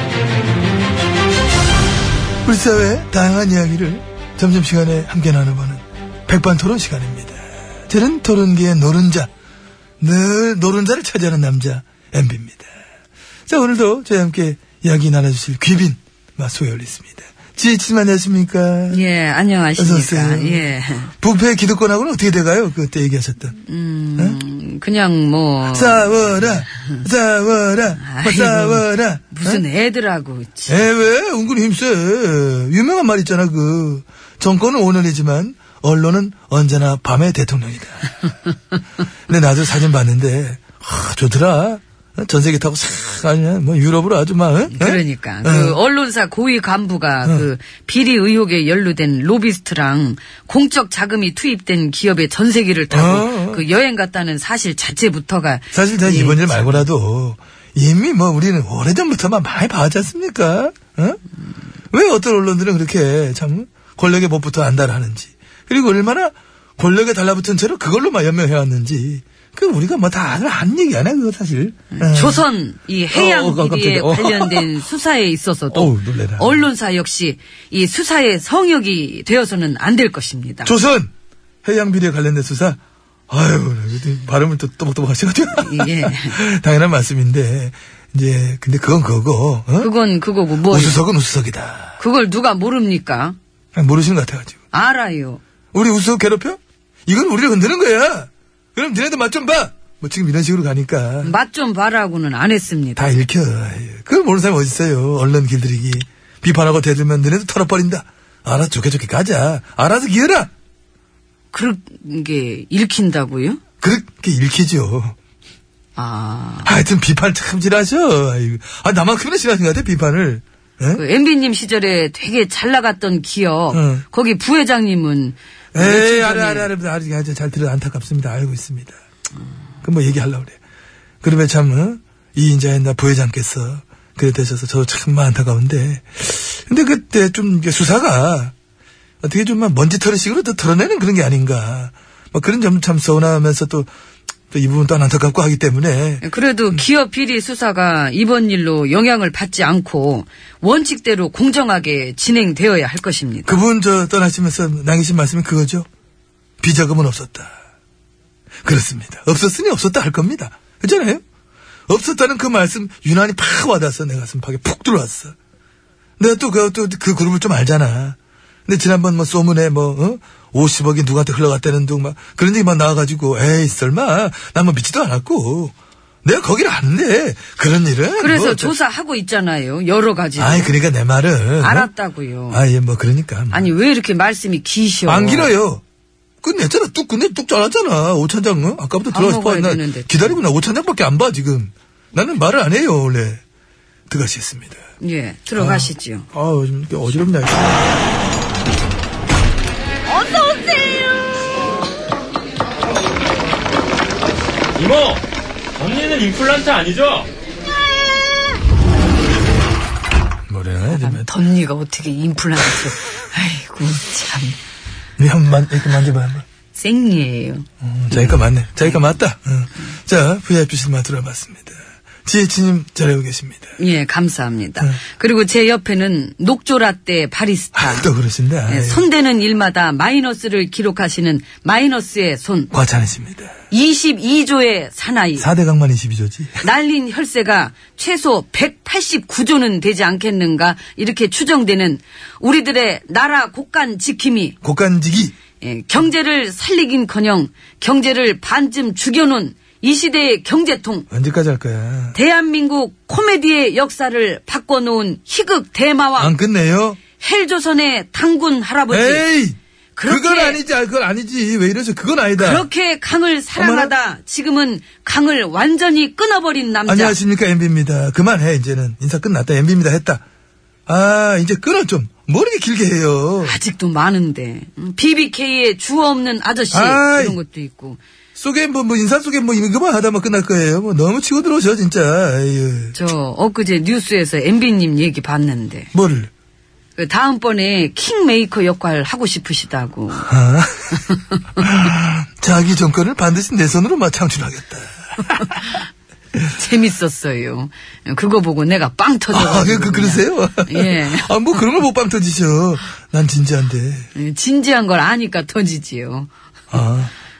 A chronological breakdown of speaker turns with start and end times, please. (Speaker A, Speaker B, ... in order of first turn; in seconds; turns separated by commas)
Speaker A: 2.4-9.3, Speaker A: 10.0-12.7, Speaker A: 13.5-19.0, Speaker B: 18.9-21.1, Speaker A: 19.8-20.7, Speaker A: 21.2-23.6, Speaker B: 23.6-26.2, Speaker A: 25.6-29.6, Speaker B: 28.0-30.9, Speaker A: 30.7-38.2, Speaker A: 39.3-45.8, Speaker B: 44.7-56.8, Speaker A: 52.9-53.6, Speaker A: 55.7-61.2, Speaker A: 61.9-72.4, Speaker B: 72.0-80.7, Speaker A: 73.1-74.8, Speaker A: 75.7-76.6, Speaker A: 80.6-81.1, Speaker A: 81.6-89.9, Speaker B: 85.6-86.4, Speaker B: 89.8-91.0, Speaker A: 90.7-92.0, Speaker B: 92.0-93.3, Speaker A: 93.7-94.6, Speaker B: 94.7-95.4, Speaker A: 95.7-101.3, Speaker B: 101.2-103.2, Speaker A: 103.0-110.5, Speaker B: 111.5-113.6, Speaker A: 113.8-115.1, Speaker B: 116.0-116.7, Speaker A: 116.6-121.0, Speaker B: 120.9-126.7, Speaker A: 123.7-124.0, Speaker A: 125.7-129.0, Speaker A: 129.8-130.6, Speaker A: 131.2-138.5, Speaker A: 139.2-143.9, Speaker A: 144.5-146.2, Speaker B: 146.2-153.6, Speaker A: 153.4-155.8, Speaker A: 156.6-157.5, Speaker A: 158.6-161.2, Speaker A: 161.9-165.3, Speaker A: 166.2-178.7, Speaker B: 178.2-180.7, Speaker A: 180.4-181.9, Speaker B: 181.6-182.6, Speaker A: 182.5-183.7, Speaker B: 183.5-185.5, Speaker A: 185.1-185.8, Speaker A: 186.4-193.4, Speaker B: 189.1-190.3, Speaker A: 194.1-194.8, Speaker B: 195.0-196.3, Speaker A: 195.6-198.0, Speaker B: 200.1-201.1, Speaker C: 204.8-205.2, Speaker C: 205.8-207.3, Speaker A: 210.5-211.3, Speaker B: 210.9-214.6, Speaker A: 215.2-216.4, Speaker B: 216.7-218.9, Speaker A: 217.8-223.7, Speaker B: 223.8-228.1, Speaker A: 227.7-229.1, Speaker B: 228.7-232.7, Speaker A: 232.7-233.5, Speaker B: 233.7-235.5, Speaker A: 235.4-236.6, Speaker B: 236.6-244.6, Speaker A: 244.6-245.3, Speaker B: 245.6-251.1, Speaker A: 251.1-252.2, Speaker B: 252.1-256.3, Speaker A: 256.2-257.0, Speaker B: 257.2-259.2, Speaker A: 258.9-262.7, Speaker B: 259.9-260.6, Speaker B: 262.4-267.1, Speaker A: 263.5-263.9, Speaker A: 266.9-270.2, Speaker A: 270.9-273.6, Speaker B: 273.4-278.0, Speaker A: 276.7-277.4, Speaker A: 278.4-282.9, Speaker B: 282.9-285.9, Speaker A: 285.9-286.3, Speaker B: 286.9-290.3, Speaker A: 290.3-291.0, Speaker A: 291.6-295.7, Speaker B: 296.5-301.3, Speaker A: 299.3-304.1, Speaker B: 304.1-306.3, Speaker A: 306.7-307.1